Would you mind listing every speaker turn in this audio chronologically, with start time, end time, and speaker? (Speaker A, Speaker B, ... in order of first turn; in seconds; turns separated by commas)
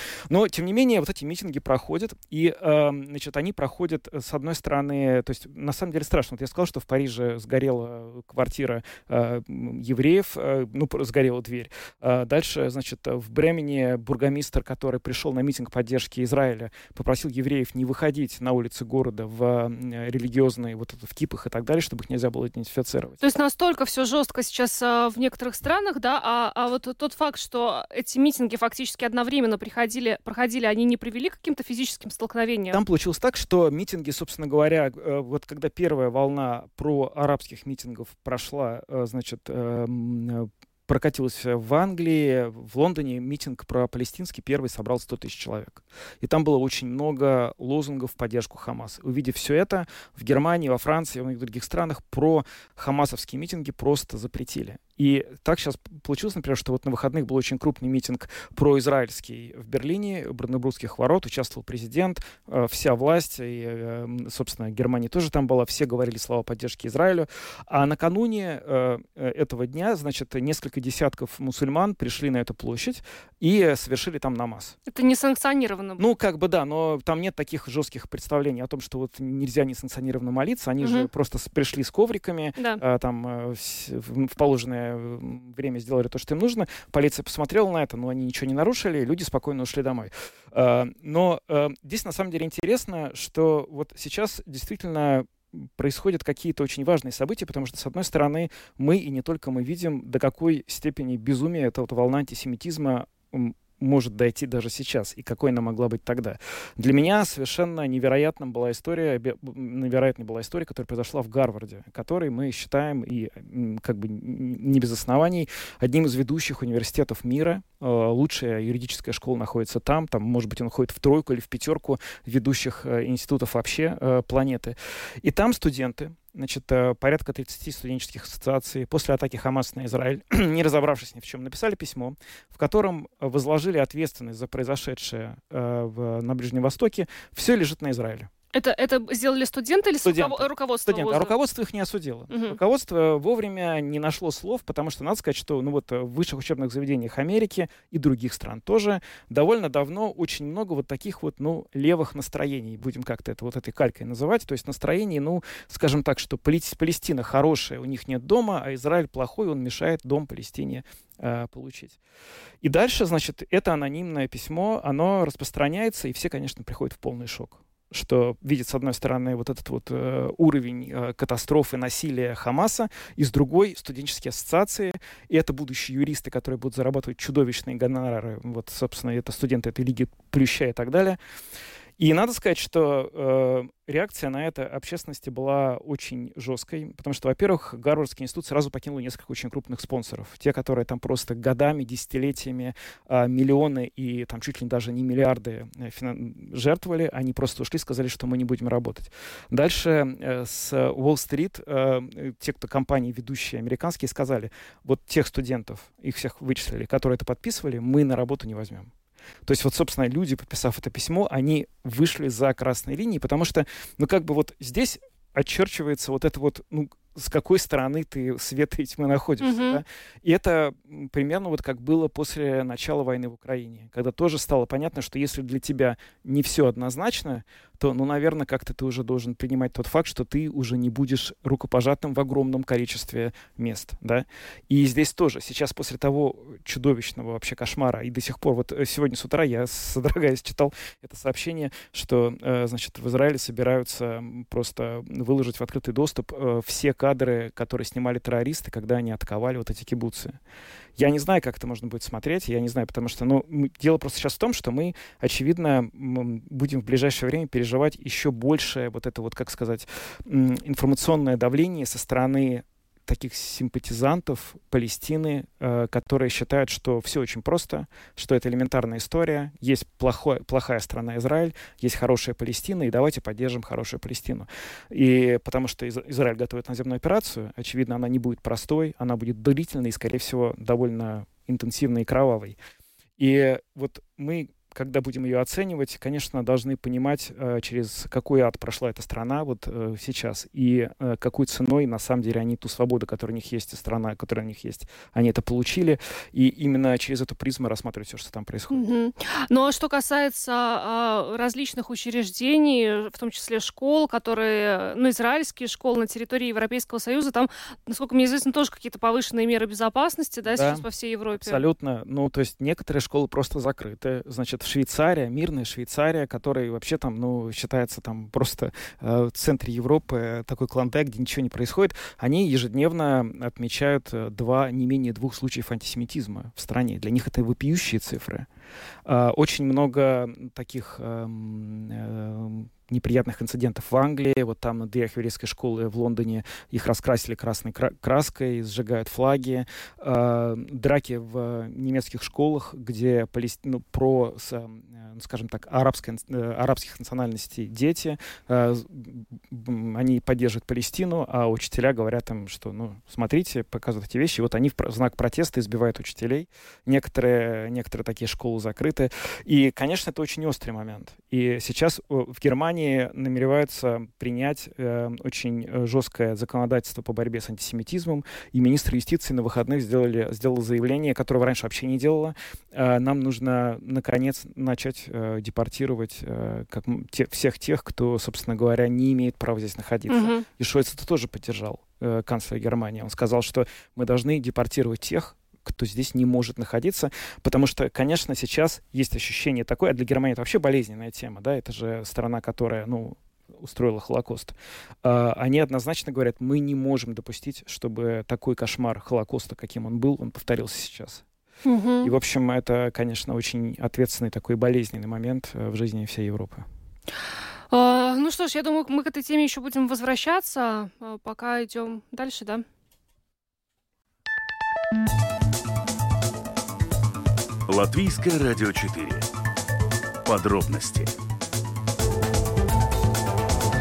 Speaker A: 0.3-23.2, Speaker B: 23.2-32.8, Speaker A: 32.7-74.8, Speaker B: 74.9-76.0, Speaker A: 76.0-138.3, Speaker B: 80.8-81.1, Speaker B: 138.5-141.3, Speaker A: 140.1-162.0, Speaker B: 142.3-142.6, Speaker A: 162.6-181.2, Speaker A: 182.0-208.9, Speaker A: 209.5-250.4, Speaker B: 219.4-219.8, Speaker A: 251.0-282.6, Speaker A: 283.2-298.8, Speaker B: 298.7-311.6, Speaker A: 310.5-310.9, Speaker A: 311.4-328.5, Speaker A: 329.1-401.2, Speaker B: 380.1-380.4, Speaker B: 401.6-402.1, Speaker A: 402.0-406.7, Speaker B: 407.7-412.6, Speaker C: 417.7-419.3, Speaker C: 420.2-421.1